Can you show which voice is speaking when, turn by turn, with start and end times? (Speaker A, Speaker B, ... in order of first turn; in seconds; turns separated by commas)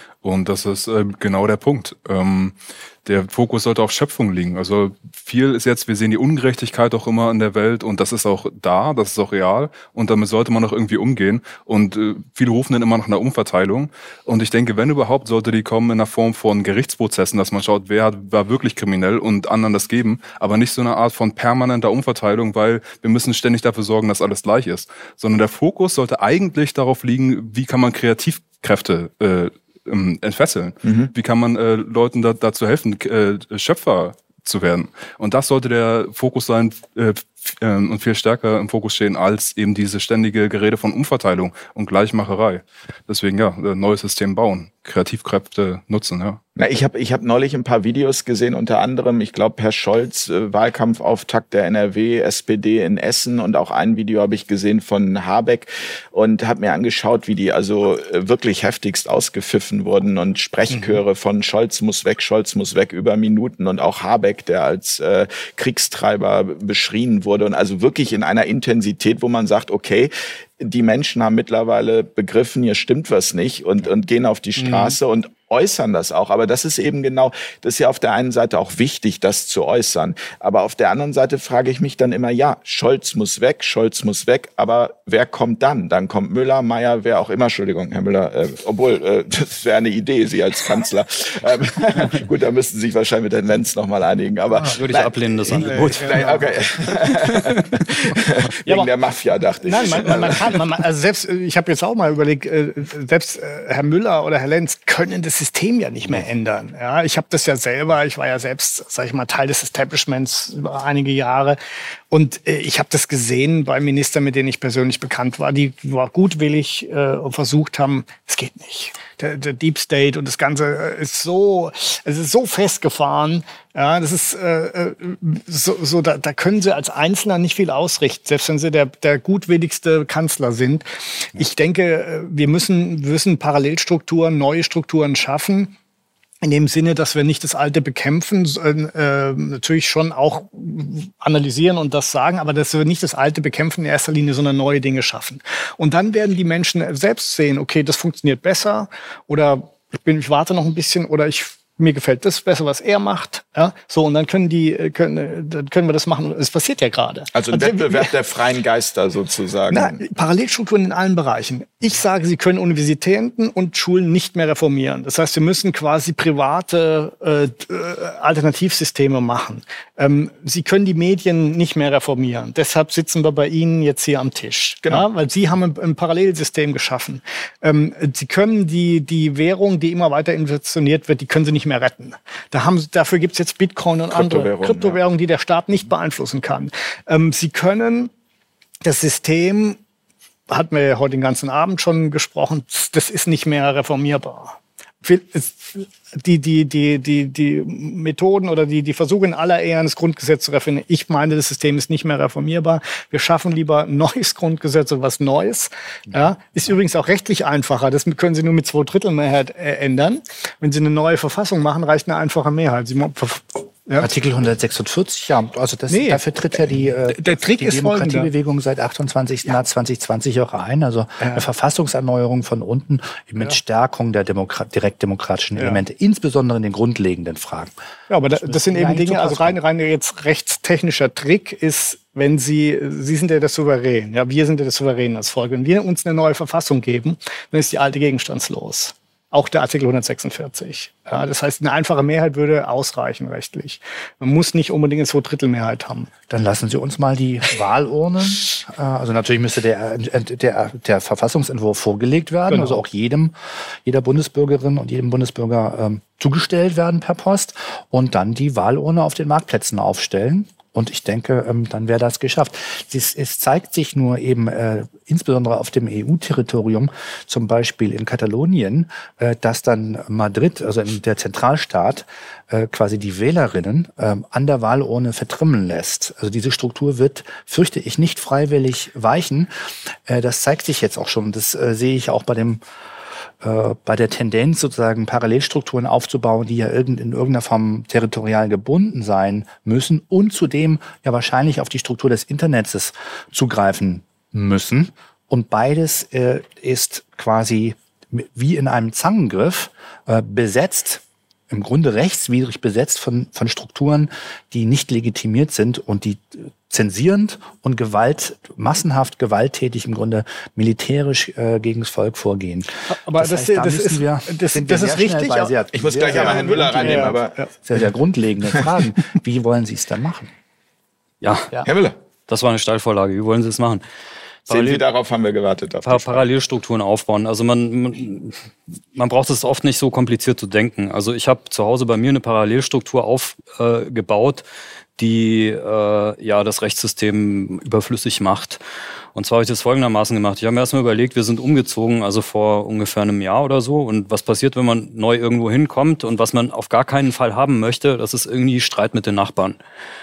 Speaker A: 0.2-46.4, Speaker B: 30.8-31.1, Speaker B: 46.5-100.6, Speaker C: 60.7-61.0, Speaker C: 74.6-75.0, Speaker D: 94.7-98.1, Speaker C: 95.5-96.5, Speaker C: 99.6-111.6, Speaker C: 112.1-135.7, Speaker C: 136.4-158.1, Speaker B: 157.3-160.0, Speaker C: 159.7-188.1, Speaker B: 184.1-185.0, Speaker C: 188.8-189.8, Speaker C: 190.5-214.1, Speaker E: 214.0-227.7, Speaker C: 215.9-216.2, Speaker C: 217.1-218.3, Speaker C: 221.2-221.4, Speaker C: 228.1-246.1, Speaker E: 228.3-229.6, Speaker E: 246.3-253.3, Speaker C: 252.5-252.8, Speaker E: 253.8-279.5, Speaker E: 280.1-282.6, Speaker E: 283.4-320.3, Speaker C: 312.9-317.5, Speaker B: 315.7-317.4, Speaker D: 321.2-321.5, Speaker B: 321.6-321.9, Speaker D: 322.3-323.8, Speaker D: 324.5-324.8, Speaker B: 324.5-326.3, Speaker D: 325.8-328.4, Speaker D: 328.9-334.4, Speaker D: 335.0-338.6, Speaker D: 339.1-349.6